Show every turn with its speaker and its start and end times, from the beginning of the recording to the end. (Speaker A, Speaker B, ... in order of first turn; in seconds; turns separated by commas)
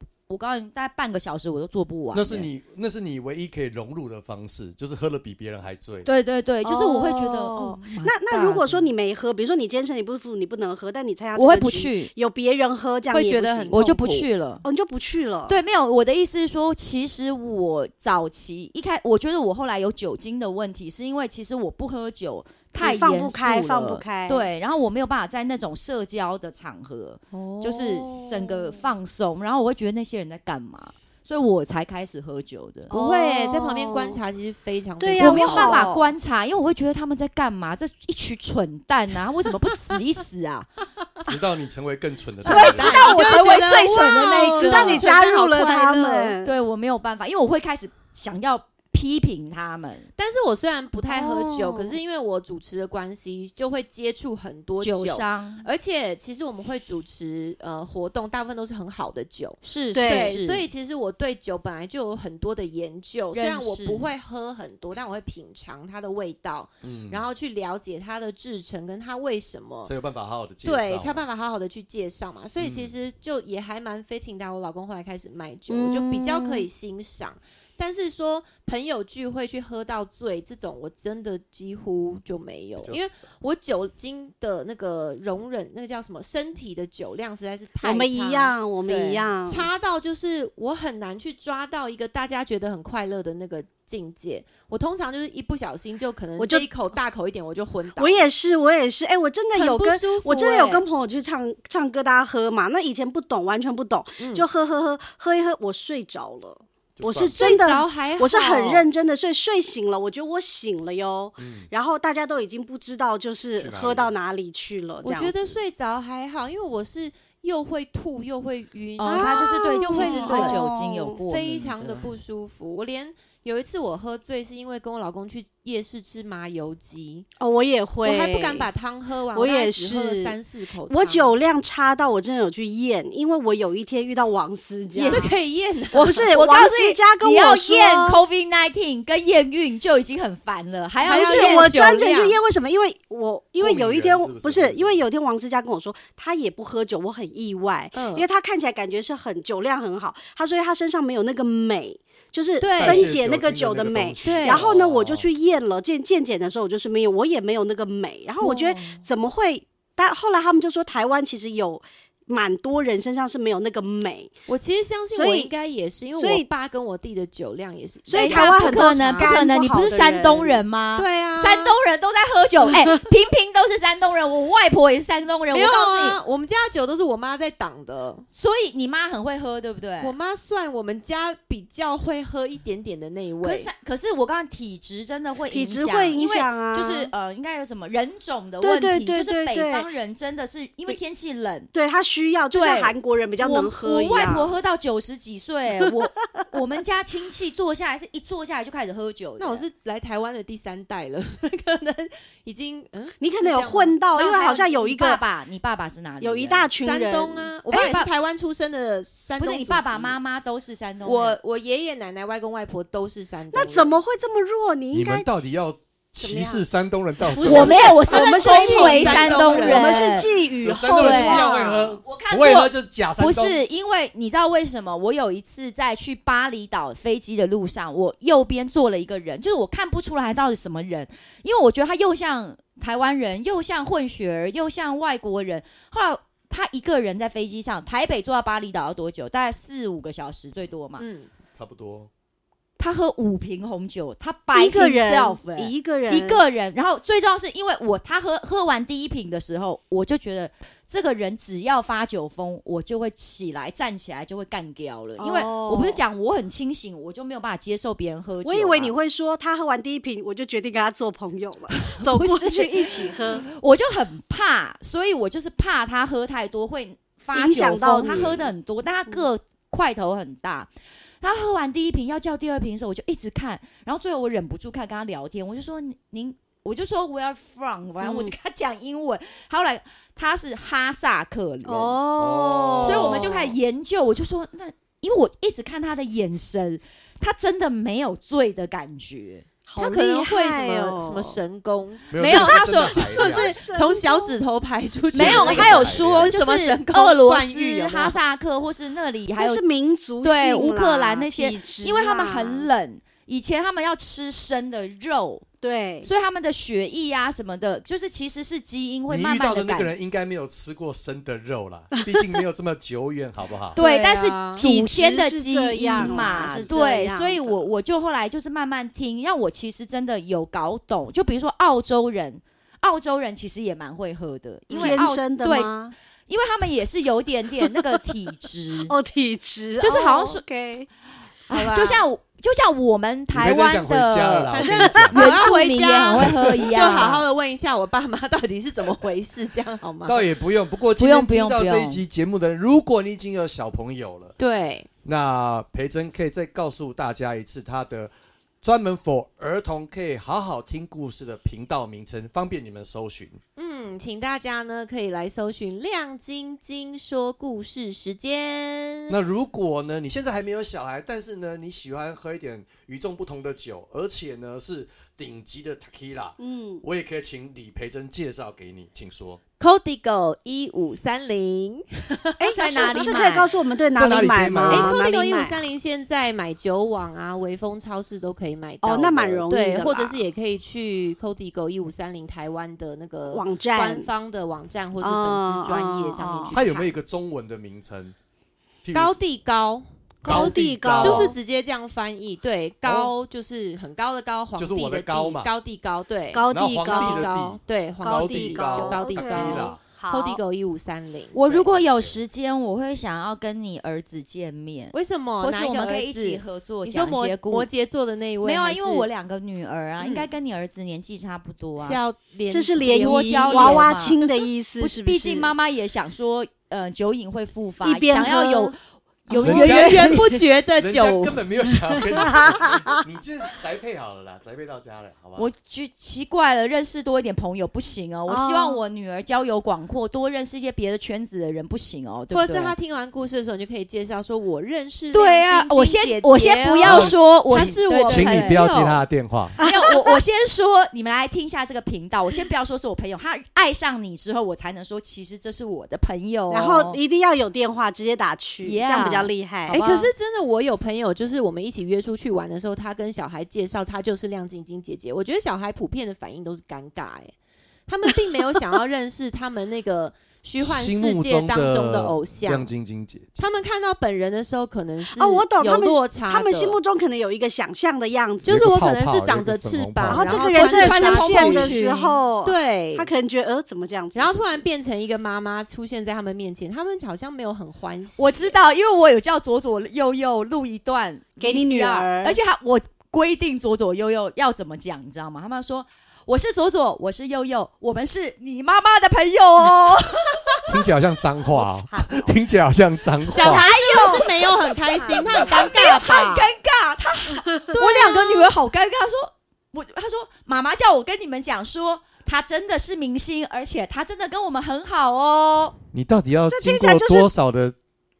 Speaker A: 0.3-2.5, Speaker B: 2.1-6.1, Speaker A: 6.0-8.8, Speaker C: 6.6-13.8, Speaker A: 11.4-12.1, Speaker D: 13.1-14.3, Speaker A: 13.7-14.6, Speaker C: 14.6-15.6, Speaker A: 15.5-32.9, Speaker C: 22.8-24.4, Speaker D: 27.3-28.9, Speaker C: 32.9-34.2, Speaker D: 32.9-35.9, Speaker C: 35.0-36.1, Speaker A: 35.2-40.7, Speaker B: 41.2-43.0, Speaker D: 42.4-46.4, Speaker A: 42.5-45.1, Speaker C: 42.5-46.5, Speaker A: 46.4-50.1, Speaker D: 50.2-69.9, Speaker C: 51.1-52.0, Speaker A: 54.8-55.7, Speaker A: 59.6-60.7, Speaker C: 60.0-60.4, Speaker A: 63.3-64.1, Speaker B: 66.8-67.2, Speaker B: 69.9-71.2, Speaker D: 70.6-88.6, Speaker B: 72.6-72.9, Speaker C: 75.7-76.7, Speaker B: 82.8-83.3, Speaker C: 87.8-89.7, Speaker A: 88.9-89.3, Speaker D: 89.5-98.3, Speaker C: 96.4-96.7, Speaker C: 98.0-115.3, Speaker D: 99.5-100.9, Speaker D: 104.2-104.5, Speaker B: 107.0-107.7, Speaker D: 107.2-108.9, Speaker B: 111.4-111.7, Speaker B: 113.6-114.1, Speaker D: 115.0-120.6, Speaker A: 119.0-122.1, Speaker C: 119.1-121.2, Speaker D: 121.2-127.3, Speaker C: 127.4-128.7, Speaker D: 128.0-131.4, Speaker C: 129.3-130.4, Speaker C: 130.9-135.3, Speaker A: 134.9-135.3, Speaker D: 135.1-136.3, Speaker C: 135.9-138.2, Speaker A: 135.9-141.9, Speaker D: 141.0-142.4, Speaker C: 141.2-164.3, Speaker B: 143.6-145.1, Speaker D: 147.9-148.3, Speaker D: 152.6-153.1, Speaker B: 152.8-155.3, Speaker D: 154.2-154.7, Speaker D: 158.4-159.0, Speaker D: 164.5-169.5, Speaker C: 165.1-165.5, Speaker C: 166.2-166.5, Speaker C: 168.1-170.6, Speaker A: 168.1-176.2, Speaker D: 171.0-171.8, Speaker D: 175.5-178.3, Speaker A: 178.3-180.1, Speaker D: 180.0-183.7, Speaker A: 183.4-191.7, Speaker C: 185.5-187.1, Speaker C: 188.6-189.9, Speaker C: 191.7-194.5, Speaker A: 192.5-199.6, Speaker D: 199.4-204.0, Speaker C: 203.2-205.2, Speaker A: 204.2-206.7, Speaker C: 206.2-208.0, Speaker D: 206.8-210.2, Speaker A: 207.7-208.1, Speaker A: 209.4-211.4, Speaker D: 211.0-214.0, Speaker C: 213.5-215.3, Speaker B: 214.9-218.0, Speaker C: 216.2-216.7, Speaker C: 217.2-221.9, Speaker A: 217.4-220.3, Speaker D: 217.5-220.2, Speaker B: 220.6-223.6, Speaker A: 221.0-221.4, Speaker A: 222.1-241.1, Speaker D: 241.0-241.3, Speaker B: 241.6-242.1, Speaker A: 242.8-258.9, Speaker C: 244.5-246.4, Speaker C: 255.2-256.0, Speaker C: 258.4-263.4, Speaker A: 261.8-270.7, Speaker C: 267.3-268.4, Speaker B: 268.1-268.5, Speaker A: 271.2-282.0, Speaker C: 278.0-278.3, Speaker C: 281.6-283.4, Speaker B: 282.2-283.3, Speaker A: 282.8-289.4, Speaker C: 289.7-291.4, Speaker D: 289.8-298.2, Speaker B: 292.1-293.6, Speaker A: 292.2-293.1, Speaker C: 293.0-294.4, Speaker B: 295.1-296.3, Speaker A: 295.1-299.6, Speaker C: 299.4-302.7, Speaker A: 300.2-305.4, Speaker C: 305.6-306.1, Speaker A: 306.0-309.9, Speaker B: 309.1-313.8, Speaker D: 313.8-314.6, Speaker A: 313.8-325.7, Speaker C: 314.6-317.6, Speaker D: 315.9-316.9, Speaker C: 324.7-325.9, Speaker D: 324.8-325.0, Speaker A: 326.3-328.9, Speaker C: 328.9-330.9, Speaker A: 329.8-330.4, Speaker A: 331.5-337.2, Speaker D: 331.5-332.0, Speaker B: 333.3-335.3, Speaker D: 334.6-340.3, Speaker C: 334.8-335.0, Speaker B: 336.2-336.7, Speaker B: 340.1-344.4, Speaker A: 341.0-342.0, Speaker D: 344.4-344.9, Speaker B: 345.0-353.4, Speaker D: 353.6-359.2, Speaker B: 359.1-369.4, Speaker C: 366.4-366.8, Speaker D: 369.6-373.2, Speaker C: 372.4-375.6, Speaker A: 372.5-373.5, Speaker B: 373.9-375.0, Speaker D: 374.7-386.9, Speaker C: 378.8-380.2, Speaker C: 383.3-384.1, Speaker C: 385.0-386.6, Speaker B: 386.5-388.1, Speaker B: 388.8-389.2, Speaker D: 388.9-401.7, Speaker C: 390.2-391.3, Speaker B: 390.2-391.3, Speaker B: 392.8-393.1, Speaker B: 394.6-395.5, Speaker C: 396.3-397.3, Speaker B: 396.5-399.8, Speaker C: 398.0-400.4, Speaker A: 401.3-407.7, Speaker B: 401.9-402.2, Speaker D: 404.9-409.1, Speaker A: 408.4-412.0, Speaker D: 410.0-410.3, Speaker D: 411.8-414.1, Speaker C: 412.5-415.5, Speaker A: 412.8-414.2, Speaker A: 414.8-420.4, Speaker C: 417.8-418.8, Speaker D: 419.3-422.1, Speaker B: 419.4-425.5, Speaker C: 422.1-422.9, Speaker A: 425.4-432.8, Speaker C: 428.3-428.8, Speaker D: 432.3-439.0, Speaker A: 435.1-438.9, Speaker B: 436.8-439.6, Speaker A: 439.6-447.0, Speaker C: 439.6-440.0, Speaker C: 446.5-449.8, Speaker A: 448.6-450.1, Speaker D: 449.7-457.3, Speaker D: 457.9-462.7, Speaker B: 460.6-463.5, Speaker D: 463.4-466.8, Speaker C: 465.2-468.7, Speaker D: 468.4-473.1, Speaker B: 468.5-470.4, Speaker C: 470.1-474.6, Speaker A: 470.5-472.2, Speaker D: 474.1-478.5, Speaker A: 478.2-490.7, Speaker C: 481.4-482.4, Speaker B: 490.7-493.7, Speaker C: 491.4-492.3, Speaker D: 493.3-496.5, Speaker A: 493.3-505.8, Speaker C: 495.1-495.7, Speaker C: 497.5-497.7, Speaker D: 497.7-498.5, Speaker B: 505.9-507.8, Speaker C: 506.5-507.3